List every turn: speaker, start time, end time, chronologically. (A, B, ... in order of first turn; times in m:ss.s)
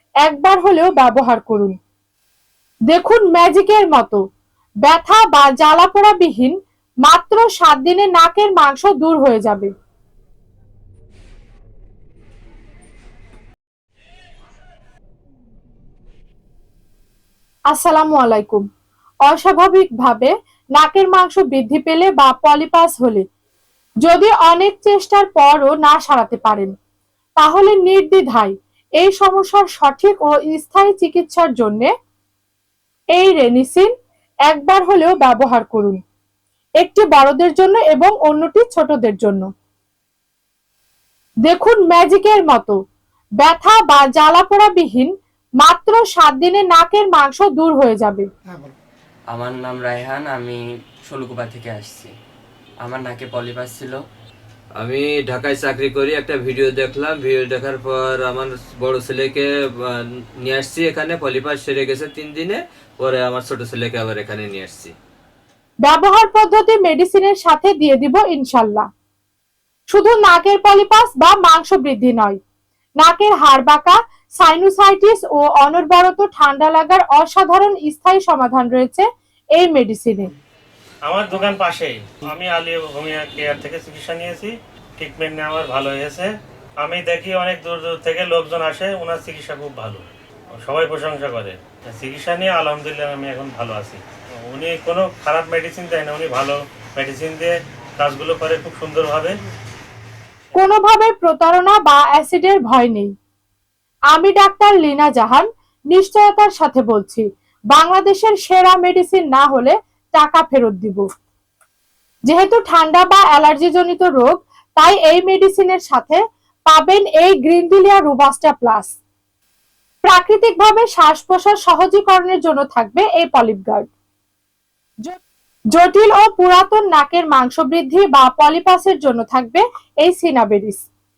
0:00.2-0:01.8 A
0:02.9-0:04.2 A
0:04.9-0:09.7 A
0:17.7-0:18.6 A
0:19.3-0:23.2 A
0:24.0-0:26.7 A
0:27.4-0:31.9 A
0:33.2-0:33.9 A
0:34.5-0:36.0 A
0:36.8-0:39.4 A
0:41.5-0:42.8 A
0:43.4-0:48.3 A
0:49.3-0:52.2 B
0:52.8-0:54.0 B
0:54.8-1:04.9 C
1:05.8-1:08.9 A
1:09.9-1:12.4 A
1:13.0-1:20.3 A
1:21.1-1:39.4 D
1:40.6-1:43.1 A
1:44.1-1:51.0 A
1:52.3-1:59.0 A
2:00.0-2:03.9 A
2:05.8-2:10.9 A